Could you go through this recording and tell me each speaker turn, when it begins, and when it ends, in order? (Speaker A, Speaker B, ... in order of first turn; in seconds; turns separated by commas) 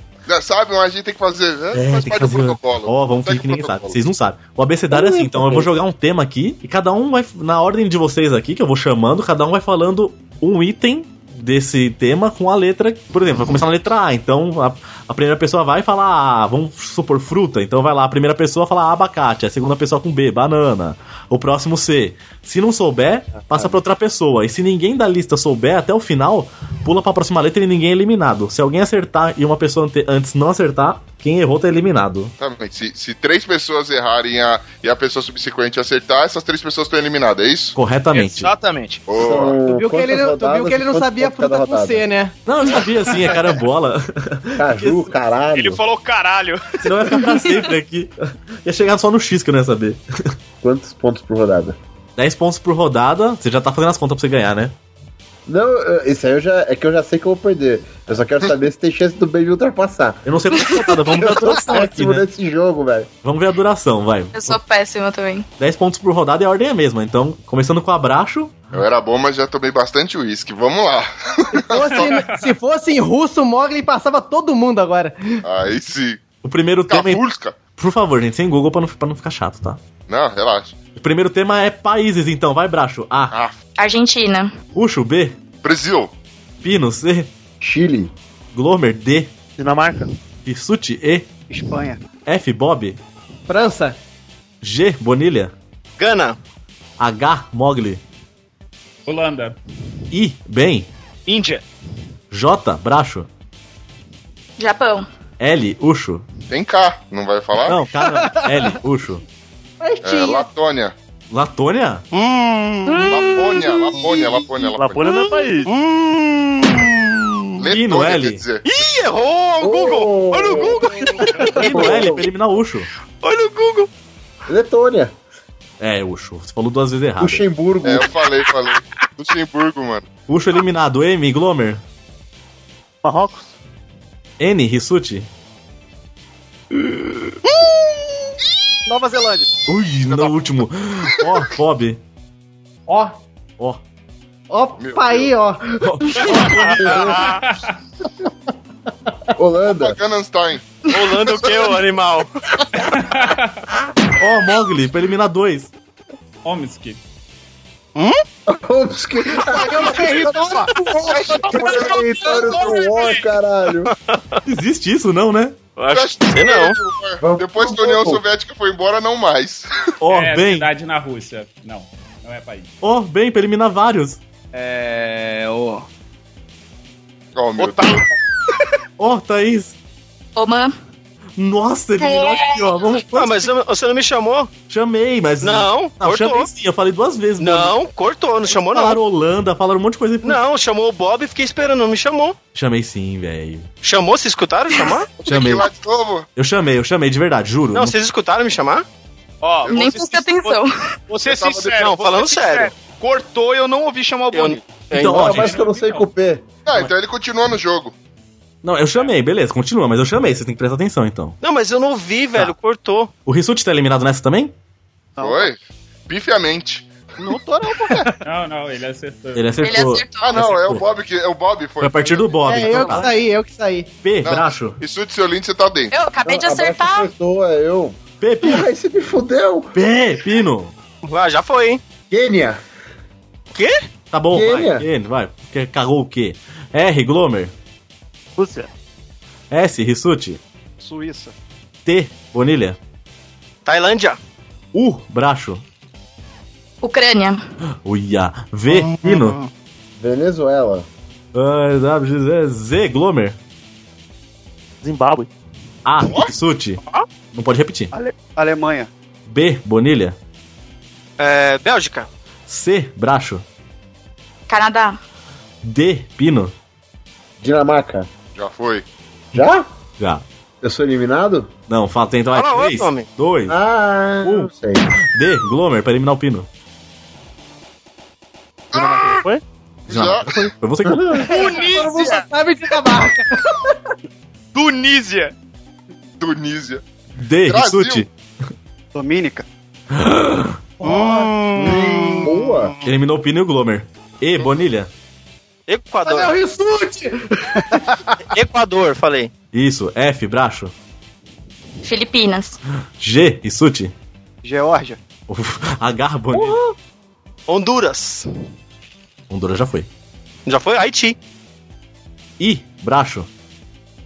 Speaker A: 0.3-4.0, Speaker B: 1.7-32.3, Speaker C: 4.9-5.7, Speaker A: 32.4-37.8, Speaker B: 37.8-38.5, Speaker D: 38.1-39.0, Speaker A: 39.1-39.6, Speaker C: 39.1-42.1, Speaker E: 39.6-42.3, Speaker B: 42.5-45.1, Speaker C: 44.6-45.8, Speaker D: 45.5-46.7, Speaker B: 46.8-50.0, Speaker C: 50.6-51.8, Speaker B: 52.2-54.7, Speaker C: 55.5-60.2, Speaker B: 60.2-62.2, Speaker C: 61.2-63.1, Speaker B: 63.2-64.6, Speaker F: 64.3-65.5, Speaker B: 65.6-68.6, Speaker A: 68.7-72.1, Speaker E: 71.5-75.4, Speaker G: 71.9-72.5, Speaker A: 75.4-76.2, Speaker B: 76.4-77.2, Speaker A: 76.9-77.6, Speaker B: 77.8-79.8, Speaker A: 80.1-80.8, Speaker B: 81.0-83.4, Speaker F: 83.8-84.5, Speaker B: 84.8-85.4, Speaker A: 85.6-86.1, Speaker B: 86.6-87.3, Speaker C: 87.6-88.1, Speaker B: 88.5-89.3, Speaker H: 89.6-90.1, Speaker B: 90.5-91.3, Speaker I: 91.5-92.0, Speaker B: 92.3-93.0, Speaker E: 93.5-94.0, Speaker B: 94.6-95.5, Speaker J: 96.0-96.4, Speaker B: 97.0-98.0, Speaker G: 99.1-99.6, Speaker B: 100.1-100.9, Speaker D: 101.3-101.6, Speaker B: 102.3-103.3, Speaker F: 104.6-105.1, Speaker B: 105.4-106.3, Speaker A: 106.5-107.8, Speaker B: 107.7-109.2, Speaker E: 109.8-110.5, Speaker A: 110.0-110.9, Speaker B: 111.3-112.0, Speaker J: 112.1-113.0, Speaker A: 113.0-115.2, Speaker H: 114.6-115.7, Speaker J: 115.2-117.2, Speaker A: 117.6-118.6, Speaker B: 117.7-118.4, Speaker J: 118.7-121.7, Speaker C: 119.6-122.2, Speaker B: 121.6-122.9, Speaker J: 123.2-123.9, Speaker C: 124.5-125.1, Speaker B: 125.8-127.4, Speaker C: 127.2-128.1, Speaker A: 127.8-130.1, Speaker B: 130.3-131.8, Speaker H: 133.0-133.5, Speaker B: 134.4-135.3, Speaker I: 138.9-139.5, Speaker B: 139.7-142.0, Speaker E: 142.9-143.2, Speaker E: 144.5-145.8, Speaker A: 144.8-145.3, Speaker B: 145.8-147.2, Speaker C: 146.8-147.2, Speaker D: 146.9-147.3, Speaker G: 147.3-147.7, Speaker C: 149.4-150.0, Speaker A: 149.7-150.6, Speaker J: 150.9-152.3, Speaker A: 151.3-151.6, Speaker G: 152.9-153.6, Speaker B: 154.2-155.7, Speaker G: 156.4-157.0, Speaker C: 158.5-160.3, Speaker E: 159.5-162.4, Speaker D: 160.2-163.2, Speaker A: 160.9-162.9, Speaker C: 161.5-163.9, Speaker J: 163.9-164.4, Speaker B: 164.5-165.6, Speaker J: 165.8-166.8, Speaker A: 165.9-169.7, Speaker C: 167.2-168.2, Speaker B: 170.0-170.7, Speaker G: 170.1-172.7, Speaker B: 172.8-174.2, Speaker D: 174.5-175.9, Speaker A: 177.3-178.0, Speaker D: 177.6-178.1, Speaker B: 179.0-179.8, Speaker F: 180.4-180.7, Speaker B: 181.4-183.5, Speaker J: 183.0-184.5, Speaker B: 184.7-187.8, Speaker J: 185.4-186.5, Speaker J: 187.4-189.0, Speaker B: 188.5-190.4, Speaker J: 190.2-192.4, Speaker B: 192.6-193.7, Speaker J: 193.8-195.1, Speaker A: 195.2-196.3, Speaker B: 195.3-195.7, Speaker B: 196.3-198.0, Speaker J: 197.7-198.8, Speaker D: 199.4-204.6, Speaker A: 199.7-200.0, Speaker F: 199.7-200.8, Speaker A: 201.2-201.9, Speaker J: 201.8-202.7, Speaker J: 204.3-205.4, Speaker B: 204.9-205.6, Speaker C: 205.0-206.4, Speaker G: 205.3-206.1, Speaker A: 206.7-207.9, Speaker B: 208.6-211.4, Speaker J: 211.4-213.1, Speaker B: 213.3-214.5, Speaker I: 215.2-215.5, Speaker A: 215.2-215.6, Speaker A: 216.1-216.9, Speaker I: 217.3-218.0, Speaker G: 218.2-219.8, Speaker B: 219.3-220.8, Speaker F: 219.6-220.4, Speaker A: 220.2-222.5, Speaker B: 221.8-223.2, Speaker E: 222.4-223.9, Speaker B: 224.0-224.8, Speaker A: 224.2-225.9, Speaker F: 225.9-227.1, Speaker C: 226.2-229.7, Speaker B: 228.2-228.6, Speaker B: 229.8-230.7, Speaker J: 231.0-231.8, Speaker C: 232.1-232.6, Speaker J: 233.6-233.8, Speaker B: 234.1-237.5, Speaker C: 234.3-234.9, Speaker H: 238.4-238.7, Speaker B: 239.5-240.4, Speaker I: 240.8-241.3, Speaker B: 241.8-242.8, Speaker J: 243.7-244.2, Speaker B: 244.8-245.6, Speaker F: 246.8-247.4, Speaker B: 247.8-249.4, Speaker J: 248.7-249.5, Speaker C: 250.0-250.9, Speaker B: 251.3-253.4, Speaker H: 254.8-255.3, Speaker B: 255.8-256.8, Speaker B: 257.3-257.9, Speaker I: 257.9-258.9, Speaker B: 259.3-260.2, Speaker J: 261.2-262.1, Speaker B: 262.5-263.4, Speaker F: 264.5-265.0, Speaker B: 265.6-266.5, Speaker C: 267.4-268.1, Speaker A: 268.4-268.9, Speaker C: 269.3-269.7, Speaker B: 270.0-270.2, Speaker C: 270.6-271.5, Speaker B: 271.7-273.6, Speaker J: 272.3-273.1, Speaker C: 273.5-274.9, Speaker B: 274.2-274.5, Speaker B: 275.1-276.5, Speaker A: 278.7-279.2, Speaker H: 278.7-279.4, Speaker A: 279.9-280.5, Speaker B: 279.9-281.2, Speaker C: 280.9-281.5, Speaker D: 281.3-282.3, Speaker E: 281.3-283.6, Speaker D: 284.5-285.3, Speaker A: 286.2-286.8, Speaker B: 287.2-288.1, Speaker A: 287.5-288.1, Speaker I: 288.9-289.4, Speaker B: 290.0-290.6, Speaker J: 290.8-292.9, Speaker C: 291.6-292.7, Speaker B: 292.9-294.9, Speaker J: 295.7-296.4, Speaker E: 296.1-298.0, Speaker J: 298.3-299.3, Speaker B: 299.5-300.7, Speaker F: 301.8-302.6, Speaker B: 303.0-303.9, Speaker I: 304.4-305.0, Speaker B: 305.3-306.6, Speaker C: 306.3-306.7, Speaker J: 307.5-308.3, Speaker B: 309.3-309.9, Speaker J: 310.5-311.2, Speaker B: 312.4-313.3